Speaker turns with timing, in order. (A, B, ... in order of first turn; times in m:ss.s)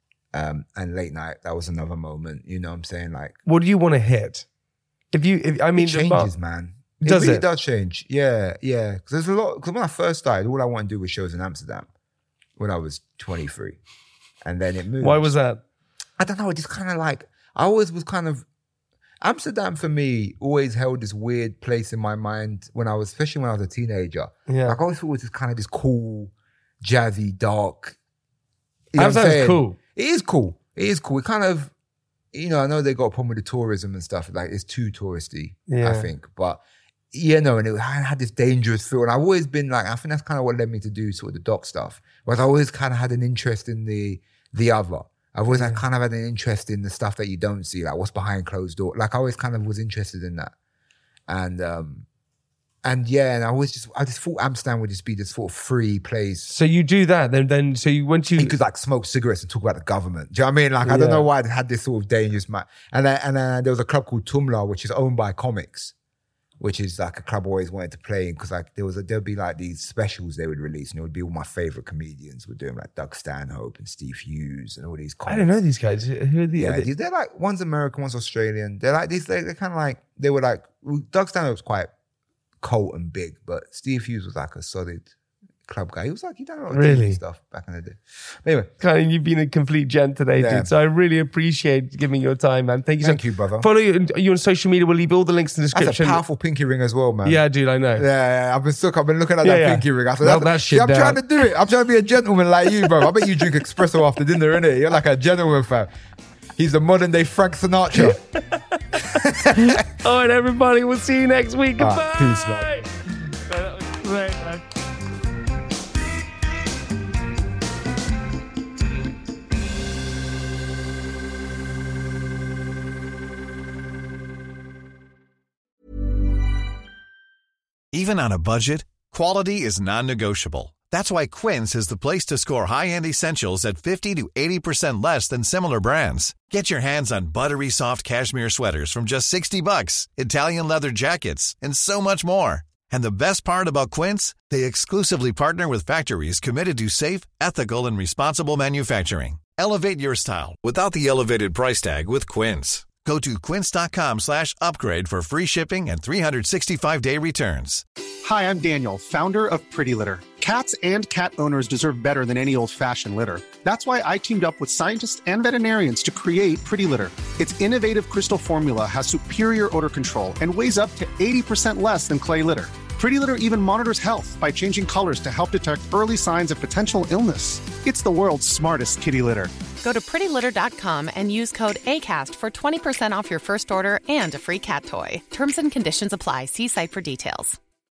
0:00.3-0:03.4 A
0:03.4-0:04.5 B
0:05.1-0:06.3 B
0:05.8-0:11.9 A
0:07.0-0:07.4 B
0:12.6-0:13.8 A
0:14.4-0:15.3 A
0:15.0-0:15.6 B
0:16.2-0:18.4 A
0:19.2-0:28.0 A
0:24.5-0:24.8 B
0:28.9-0:31.7 A
0:29.0-0:29.8 B
0:32.3-0:50.5 A
0:35.7-0:36.1 B
0:45.5-0:45.8 B
0:51.3-0:52.1 A
0:52.8-0:56.5 A
0:56.5-0:58.6 B
0:58.4-1:05.9 A
1:00.8-1:01.3 B
1:06.6-1:15.5 A
1:15.3-1:16.9 B
1:16.6-1:21.9 A
1:22.6-1:25.1 A
1:25.7-1:28.7 A
1:26.7-1:27.2 B
1:28.8-1:36.2 B
1:30.4-1:30.7 A
1:33.0-1:33.7 A
1:35.7-1:37.4 A
1:37.2-1:38.0 B
1:38.0-1:45.9 A
1:39.4-1:41.2 B
1:46.6-1:48.2 A
1:48.0-1:52.9 B
1:49.2-1:49.8 A
1:51.8-1:52.7 A
1:53.5-1:54.6 B
2:07.9-2:37.8 C
2:38.2-2:59.5 D
2:59.8-3:07.6 E